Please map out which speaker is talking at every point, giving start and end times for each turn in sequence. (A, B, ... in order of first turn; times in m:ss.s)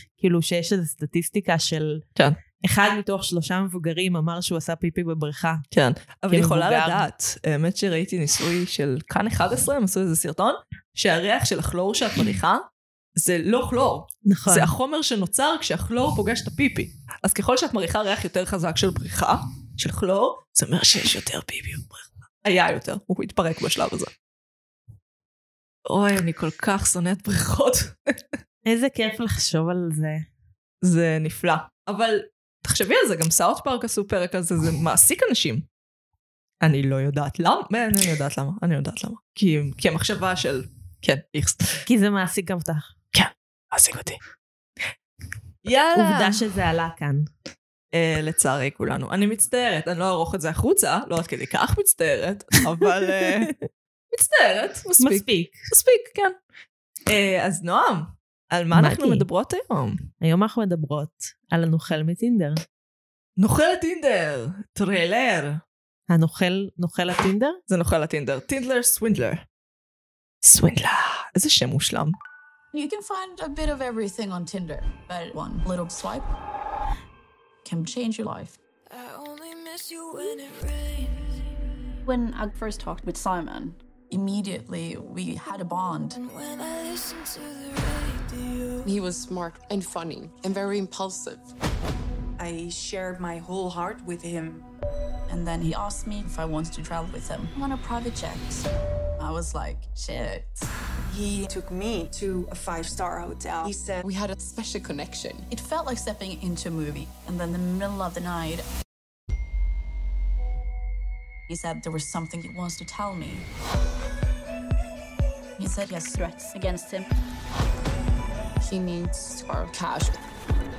0:00.2-0:02.0 A
0:02.6-0:05.6 A
0:05.7-0:12.6 B
0:06.3-0:07.1 A
0:13.2-0:24.1 B
0:14.2-0:14.7 A
0:25.9-0:28.0 B
0:28.6-0:30.3 A
0:30.8-0:35.7 B
0:36.6-0:41.8 B
0:41.9-0:42.9 A
0:43.1-0:44.2 B
0:45.6-0:46.4 B
0:46.0-0:47.3 A
0:47.9-0:53.5 B
0:54.1-0:56.4 B
0:55.0-0:55.6 A
0:57.1-1:00.1 B
0:58.7-0:59.2 A
1:00.2-1:02.6 A
1:03.4-1:05.6 B
1:06.1-1:07.6 A
1:07.7-1:09.4 B
1:10.4-1:12.2 B
1:12.7-1:16.3 C
1:17.6-1:18.6 C
1:18.9-1:21.5 D
1:22.1-1:26.2 C
1:26.2-1:28.9 D
1:28.8-1:31.5 E
1:32.4-1:34.7 F
1:35.3-1:40.7 C
1:41.1-1:44.0 F
1:44.0-1:45.5 E
1:45.5-1:48.7 C
1:51.5-1:53.5 C
1:55.6-1:57.1 C
1:58.6-2:00.2 C